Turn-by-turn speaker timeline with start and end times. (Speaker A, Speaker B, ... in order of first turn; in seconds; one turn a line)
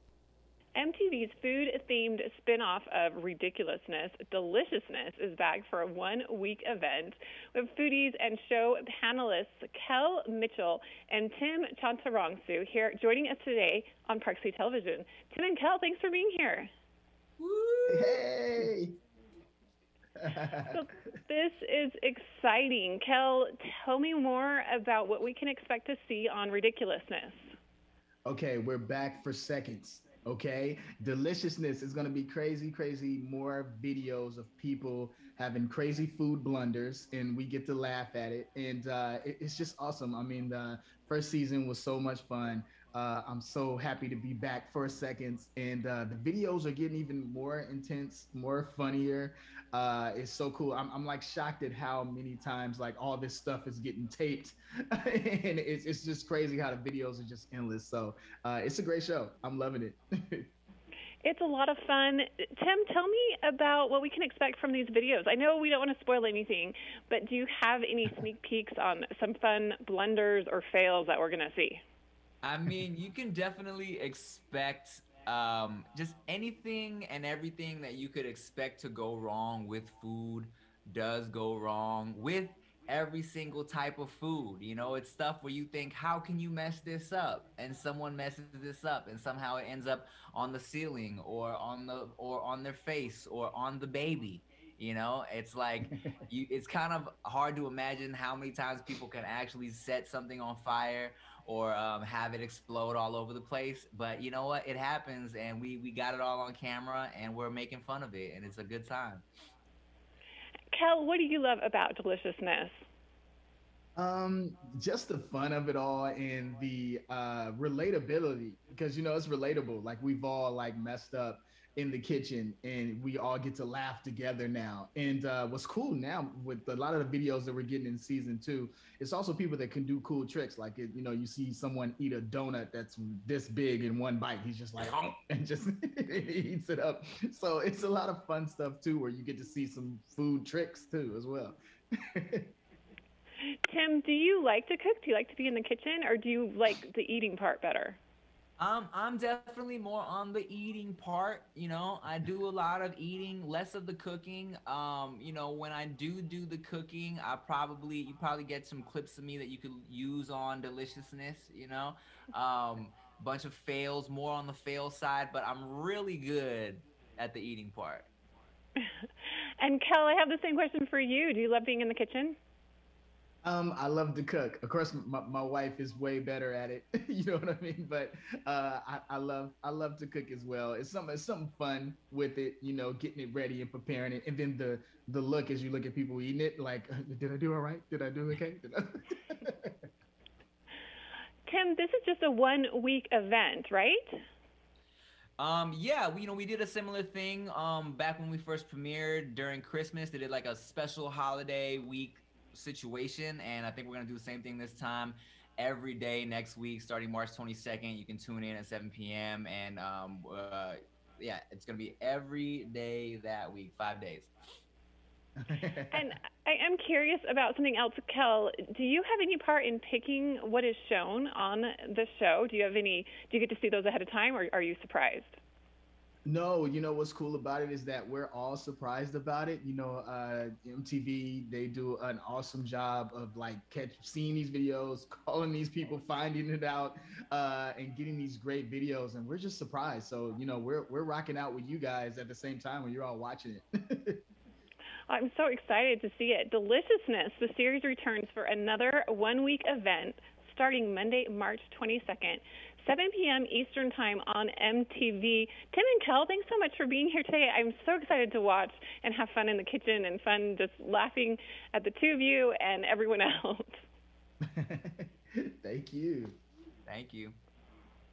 Speaker A: 0.8-16.7
Speaker B: 17.4-18.2
Speaker C: 17.9-18.9
Speaker C: 20.2-20.8
Speaker A: 20.7-27.5
Speaker C: 28.2-60.5
Speaker A: 61.2-71.8
Speaker B: 72.4-109.2
Speaker A: 110.7-112.7
Speaker C: 114.0-141.6
Speaker C: 142.1-142.5
Speaker A: 143.7-148.0
Speaker B: 148.6-168.1
Speaker A: 169.6-172.4
Speaker C: 173.4-189.8
Speaker A: 191.4-194.0
Speaker B: 195.4-214.3
Speaker C: 215.4-216.0
Speaker A: 215.9-225.4
Speaker C: 226.2-244.2
Speaker A: 245.1-263.8
Speaker C: 264.5-266.4
Speaker B: 266.9-267.4